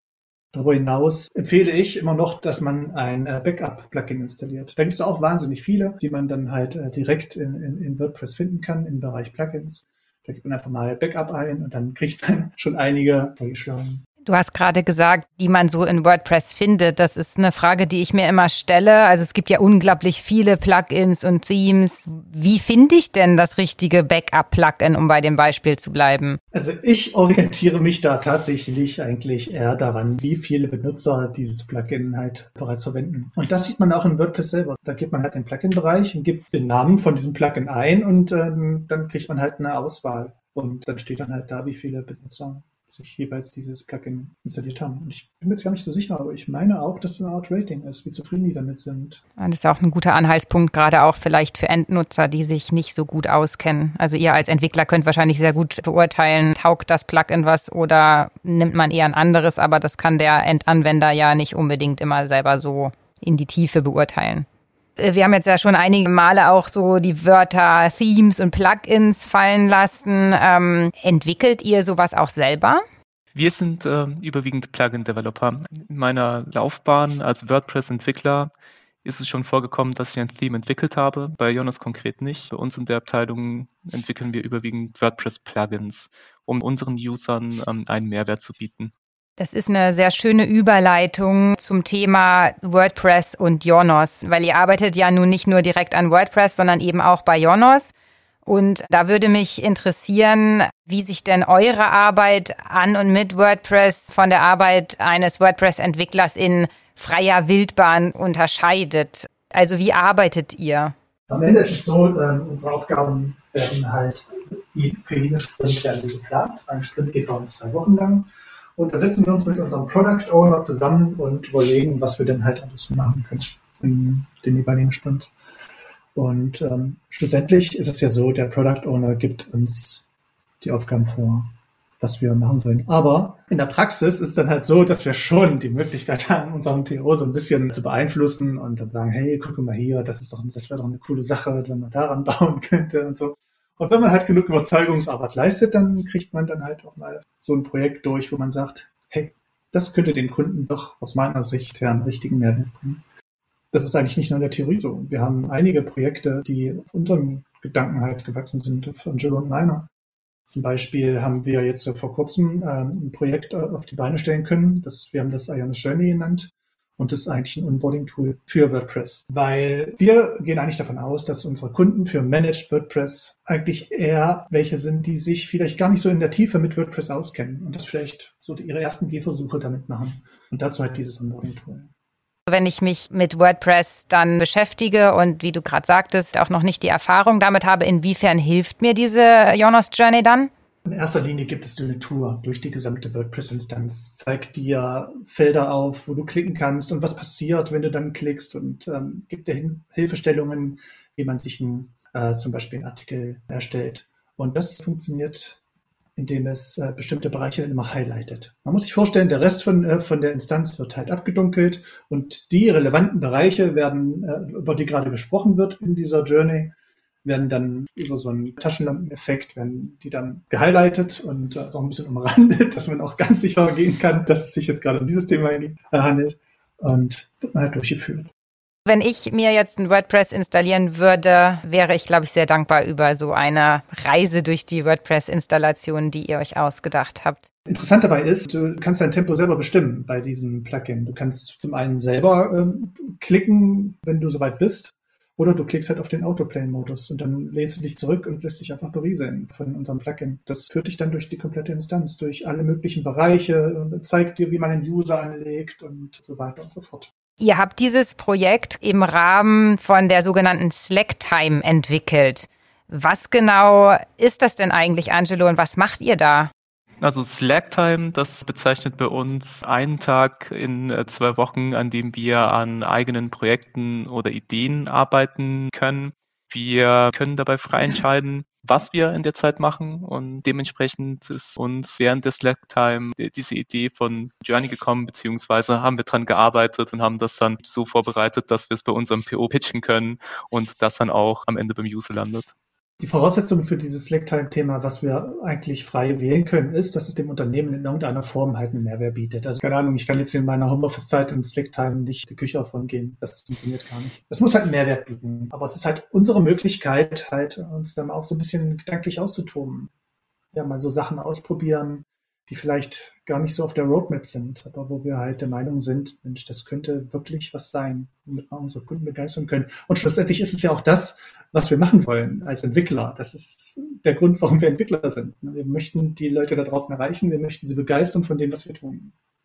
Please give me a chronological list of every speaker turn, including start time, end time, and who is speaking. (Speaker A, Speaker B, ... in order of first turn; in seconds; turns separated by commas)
Speaker A: 0.5-14.0, Speaker B: 14.2-26.4, Speaker A: 26.5-49.2, Speaker B: 49.4-64.5, Speaker B: 65.0-72.8, Speaker C: 73.3-78.5, Speaker C: 79.0-88.9, Speaker B: 89.4-97.9, Speaker B: 98.5-110.9, Speaker A: 111.3-125.3, Speaker A: 126.2-130.1, Speaker A: 130.6-153.0, Speaker A: 153.7-159.9, Speaker A: 160.5-181.9, Speaker B: 182.5-190.5, Speaker A: 190.8-205.6, Speaker A: 206.2-228.3, Speaker B: 228.9-237.5, Speaker A: 237.7-257.1, Speaker B: 257.4-266.5, Speaker C: 267.0-292.5, Speaker A: 293.0-309.9, Speaker A: 310.5-329.1